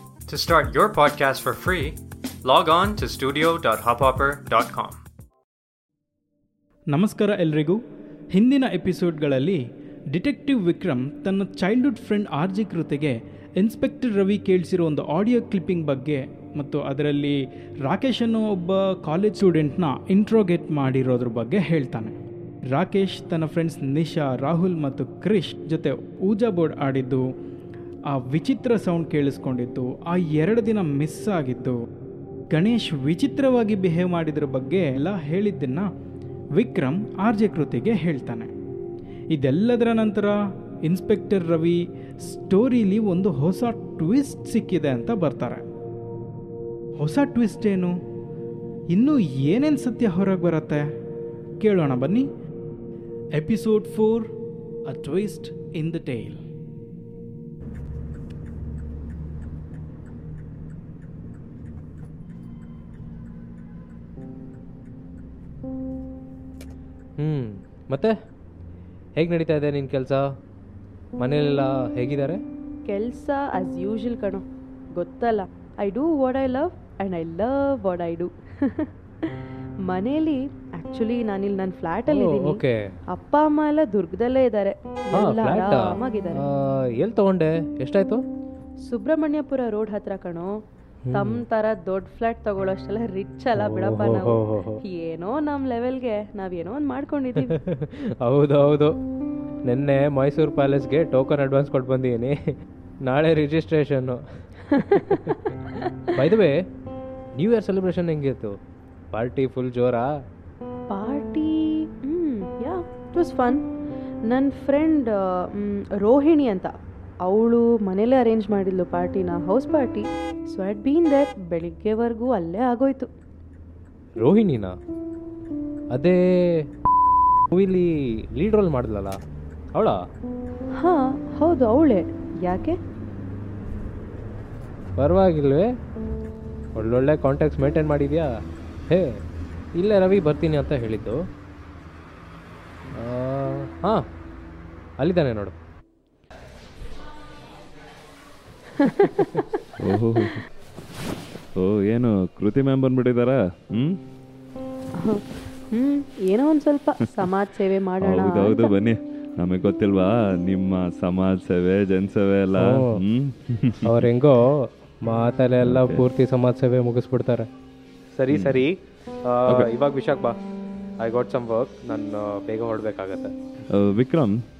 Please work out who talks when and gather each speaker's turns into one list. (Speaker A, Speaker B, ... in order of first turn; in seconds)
Speaker A: 0.3-5.0
Speaker B: 6.9-7.8, 8.3-9.6, 10.1-22.1, 22.7-27.2, 28.1-31.8, 32.5-35.9, 36.5-38.5, 39.3-40.3, 40.8-45.6, 47.0-47.9, 48.9-50.8, 51.6-52.2, 53.3-54.2, 54.9-56.4
Speaker C: 67.2-68.1, 69.2-70.2, 71.2-72.4, 82.1-82.8, 85.1-88.2, 91.0-91.4, 93.5-94.8, 97.4-99.0, 99.7-102.3, 103.0-104.4, 106.2-106.6, 107.3-108.5, 109.1-110.1, 124.2-124.7, 125.9-126.6, 127.5-129.2, 129.7-130.0, 135.0-135.7, 136.7-138.3, 139.7-141.2, 142.9-144.0, 145.0-145.5, 162.6-162.9, 163.8-167.5, 168.1-170.4, 171.0-173.3
Speaker D: 72.9-74.4, 75.0-78.9, 79.8-86.4, 88.8-90.6, 91.1-97.5, 104.9-105.3, 110.9-113.6, 114.3-116.7, 117.2-123.1, 130.8-132.8, 148.8-149.3, 155.0-158.7
Speaker E: 149.8-150.4, 151.6-154.0, 158.0-164.1, 165.6-166.1, 168.3-168.7, 173.7-174.3